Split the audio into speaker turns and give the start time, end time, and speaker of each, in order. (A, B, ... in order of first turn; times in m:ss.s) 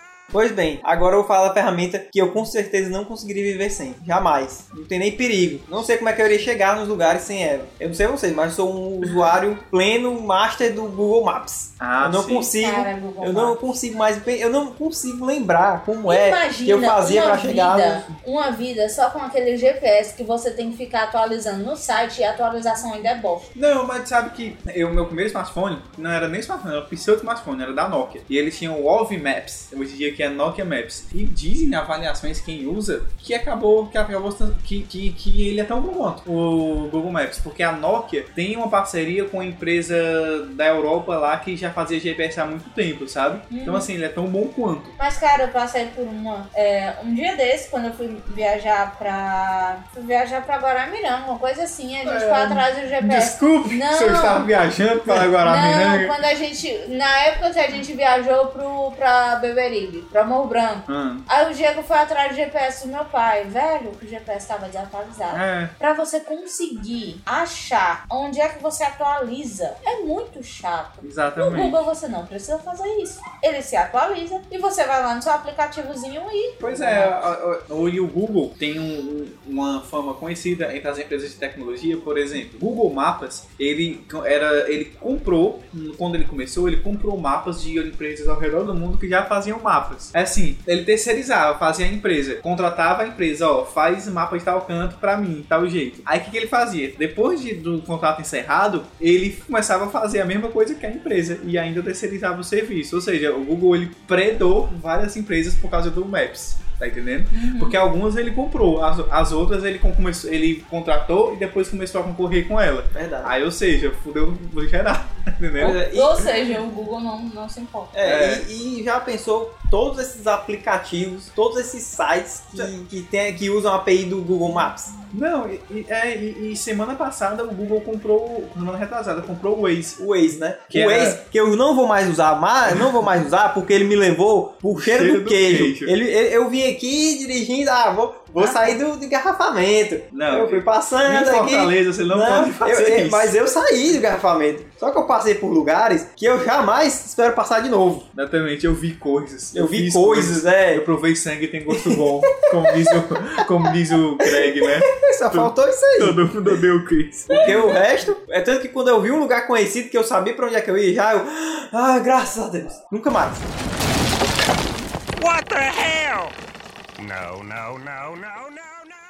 0:00.3-0:18.1 A
0:11.8-0:12.5 B
0:12.5-0:13.6 C
0:16.0-0:23.5 C
0:23.5-0:44.9 B
0:43.5-0:43.9 C
0:45.0-0:54.4 C
0:52.0-0:56.1 B
0:55.4-1:17.1 C
1:00.9-1:01.2 B
1:05.3-1:05.7 B
1:11.0-1:11.8 B
1:16.6-1:55.8 B
1:47.3-1:47.8 C
1:52.9-1:53.3 A
1:55.6-1:56.3 A
1:55.6-1:57.9 C
1:57.9-2:04.9 A
1:58.0-1:58.4 B
2:05.1-2:10.0 B
2:10.0-2:28.1 A
2:10.7-2:11.2 B
2:14.7-2:15.9 B
2:18.4-2:18.8 B
2:20.1-2:23.3 B
2:28.1-2:37.5 B
2:29.5-2:30.8 A
2:31.7-2:36.5 A
2:37.3-2:37.8 C
2:37.4-2:43.5 A
2:45.2-2:46.3 D
2:47.0-2:48.9 D